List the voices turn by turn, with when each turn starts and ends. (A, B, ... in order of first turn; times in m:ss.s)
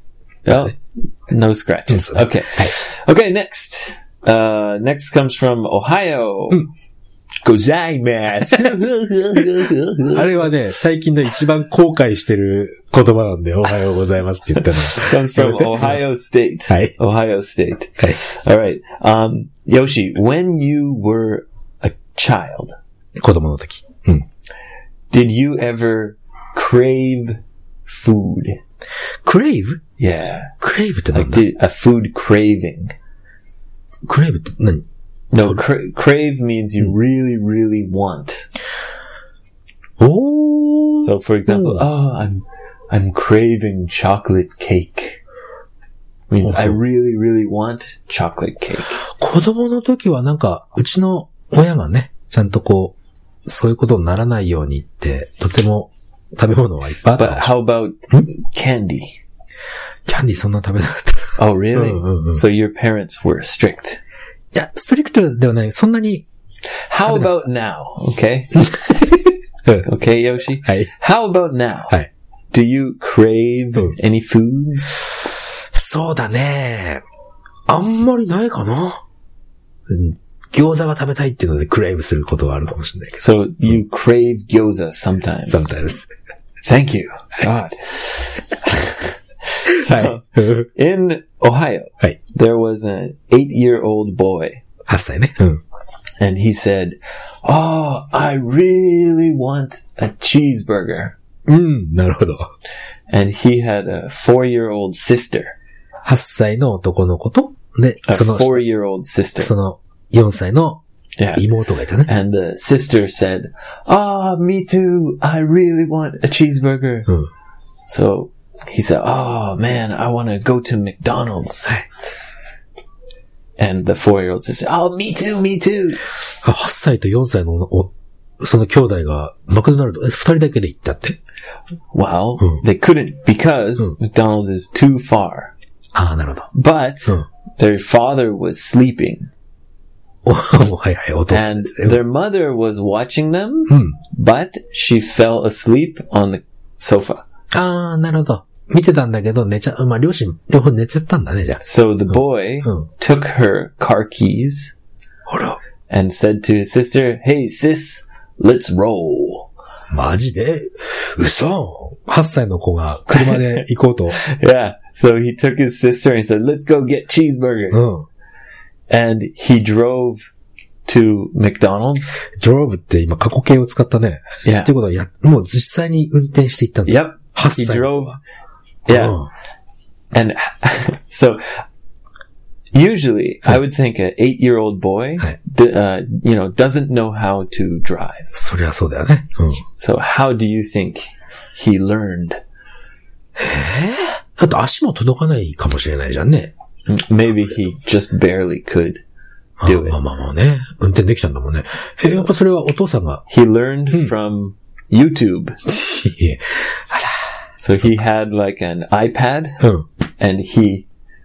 0:00.4-0:06.7 A
0:01.9-0:02.7 B
0:07.4-0:10.5 A
0:10.1-0:16.0 B
0:14.6-0:22.8 A
0:23.2-0:24.2 B
0:25.1-0:28.6 A
0:29.2-0:29.8 B
0:30.0-0:30.6 A
0:30.6-0:31.4 B
0:31.1-0:32.9 A
0:34.0-0:34.8 B
0:35.3-0:38.5 A
0:40.0-0:41.8 B
0:41.0-0:45.2 A
0:46.3-0:49.0 A
0:46.4-0:46.8 B
0:49.0-0:57.5 B
0:57.2-0:59.2 A
1:00.1-1:02.4 B
1:01.4-1:04.0 A
1:04.5-1:06.2 B
1:06.9-1:09.1 A
1:08.7-1:09.8 B
1:09.8-1:11.9 A
1:12.5-1:15.0 A
1:15.7-1:17.0 B
1:17.7-1:19.0 B
1:19.9-1:23.7 B
1:23.2-1:25.8 A
1:25.5-1:26.1 B
1:26.6-1:34.6 A
1:29.7-1:30.7 B
1:34.9-1:35.6 B
1:36.2-1:41.2 A
1:41.4-1:42.5 B
1:43.1-1:45.5 A
1:46.0-1:48.6 B
1:48.0-1:49.5 A
1:49.4-1:50.8 B
1:51.2-1:51.4 A
1:51.3-1:52.1 B
1:52.0-1:57.1 A
1:57.9-2:01.8 A
2:03.6-2:06.0 A
2:06.4-2:11.2 B
2:11.9-2:15.5 A
2:15.9-2:16.5 B
2:16.5-2:19.3 A
2:20.2-2:22.0 B
2:21.3-2:27.2 A
2:23.7-2:23.9 B
2:27.5-2:32.8 B
2:31.6-2:34.7 A
2:35.3-2:35.6 B
2:35.9-2:39.5 A
2:39.9-2:44.2 B
2:43.1-2:47.9 A
2:47.7-2:48.0 B
2:48.9-2:50.2 A
2:50.8-2:52.2 A
2:52.3-2:58.2 B
2:54.4-2:54.7 A
2:56.8-2:58.2 A
2:58.9-2:59.2 A
2:58.9-2:59.3 B
3:00.1-3:01.6 A
3:02.7-3:08.3 A
3:08.3-3:09.6 B
3:09.8-3:12.4 A
3:13.4-3:16.5 B
3:16.9-3:19.0 A
3:19.6-3:23.2 B
3:19.6-3:20.0 A
3:23.3-3:25.6 A
3:25.6-3:27.9 B
3:27.6-3:29.7 A
3:30.2-3:30.9 A